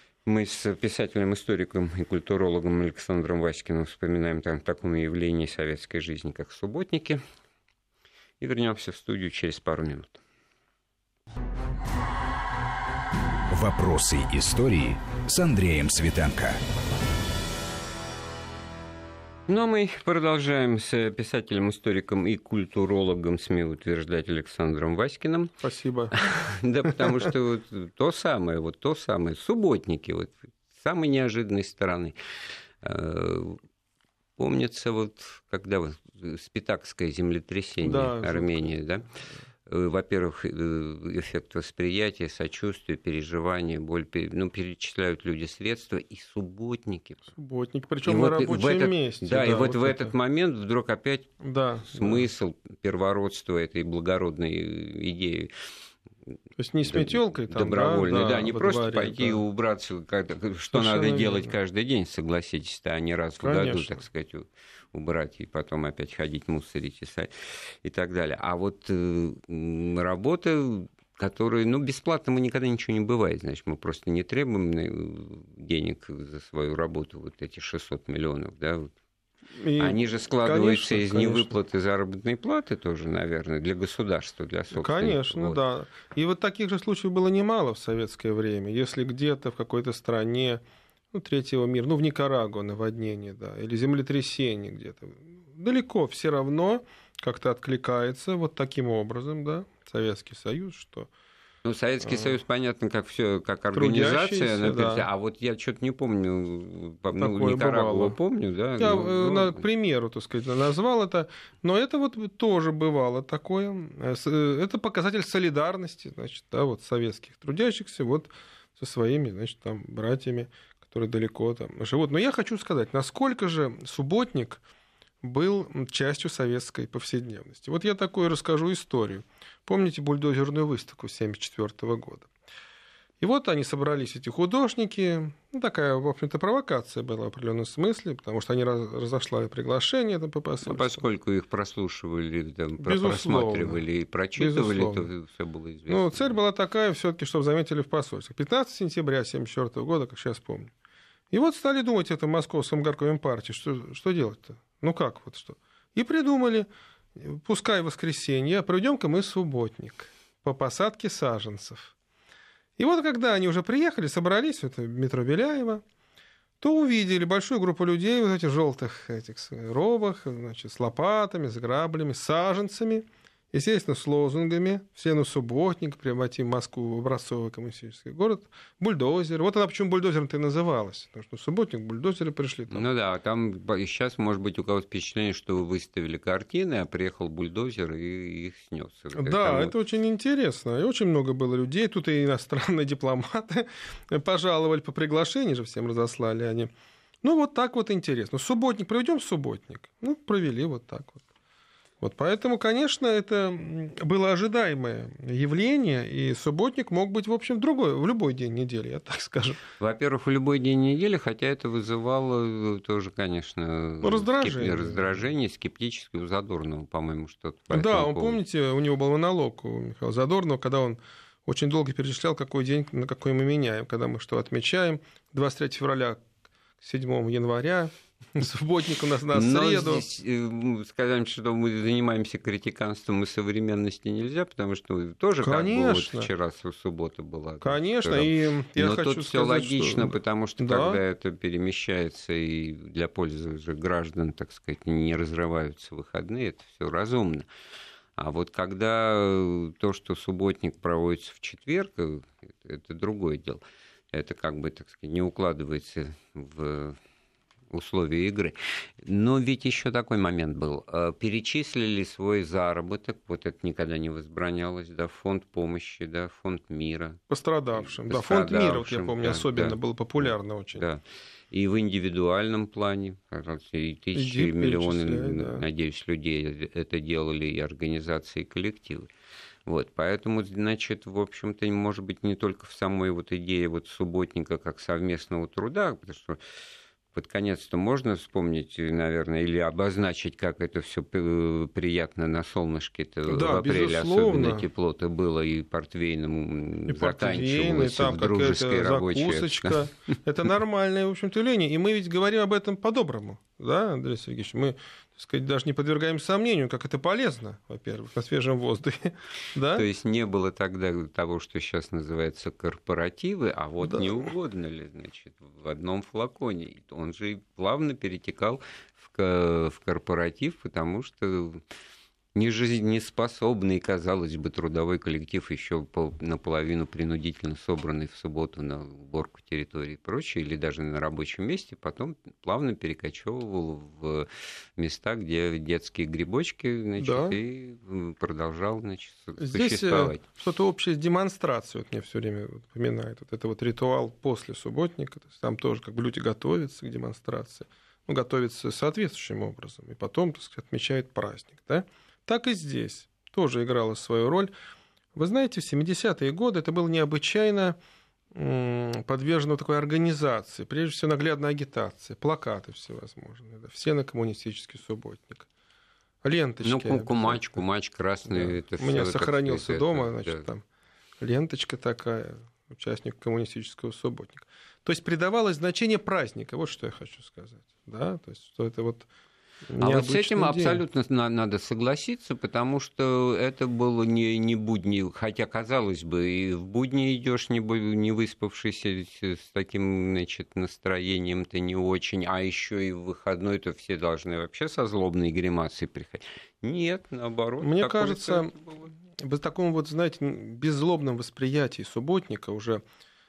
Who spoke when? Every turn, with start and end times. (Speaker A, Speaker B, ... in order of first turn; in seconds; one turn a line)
Speaker A: 0.2-7.2
Speaker A: 8.4-10.2
Speaker B: 13.5-16.6
Speaker A: 19.5-25.6
Speaker C: 25.6-26.1
Speaker A: 26.2-32.1
Speaker C: 26.9-27.2
Speaker A: 32.8-33.6
Speaker A: 34.4-39.1
Speaker C: 37.8-38.7
Speaker A: 39.7-47.3
Speaker C: 47.4-50.1
Speaker A: 48.0-55.5
Speaker C: 51.4-52.2
Speaker C: 56.6-59.4
Speaker A: 56.9-78.9
Speaker C: 60.7-61.5
Speaker C: 63.4-64.0
Speaker C: 79.5-81.6
Speaker A: 79.8-85.6
Speaker C: 84.7-101.1
Speaker A: 101.6-109.6
Speaker C: 103.7-105.0
Speaker C: 107.2-108.2
Speaker C: 108.8-124.6
Speaker C: 125.2-132.3
Speaker C: 133.2-141.0
Speaker A: 140.6-146.4
Speaker C: 142.8-143.8
Speaker C: 144.3-145.1
Speaker C: 145.9-150.7
Speaker C: 151.3-161.9
Speaker C: 162.8-165.8
Speaker C: 166.6-182.9
Speaker A: 182.7-189.8
Speaker C: 189.1-201.2
Speaker C: 202.0-209.6
Speaker A: 209.8-218.4
Speaker C: 214.0-215.2
Speaker C: 217.7-226.2
Speaker C: 226.8-230.0
Speaker A: 229.3-247.4
Speaker C: 235.4-236.3
Speaker C: 237.6-241.0
Speaker A: 248.2-257.0
Speaker A: 257.7-267.2
Speaker C: 267.3-270.8
Speaker A: 267.8-279.1
Speaker C: 274.1-275.6
Speaker A: 279.6-286.4
Speaker A: 287.1-300.1
Speaker C: 293.3-294.7
Speaker C: 296.9-309.9
Speaker A: 309.7-321.6
Speaker C: 313.9-314.3
Speaker A: 322.4-340.2
Speaker C: 337.0-337.4
Speaker C: 339.4-354.5
Speaker C: 355.1-357.8
Speaker C: 358.3-365.5
Speaker C: 366.2-367.6
Speaker A: 366.6-370.5
Speaker C: 368.3-370.6
Speaker C: 371.2-379.1
Speaker C: 379.7-380.8
Speaker A: 379.8-398.9
Speaker C: 397.6-398.6
Speaker C: 399.1-402.8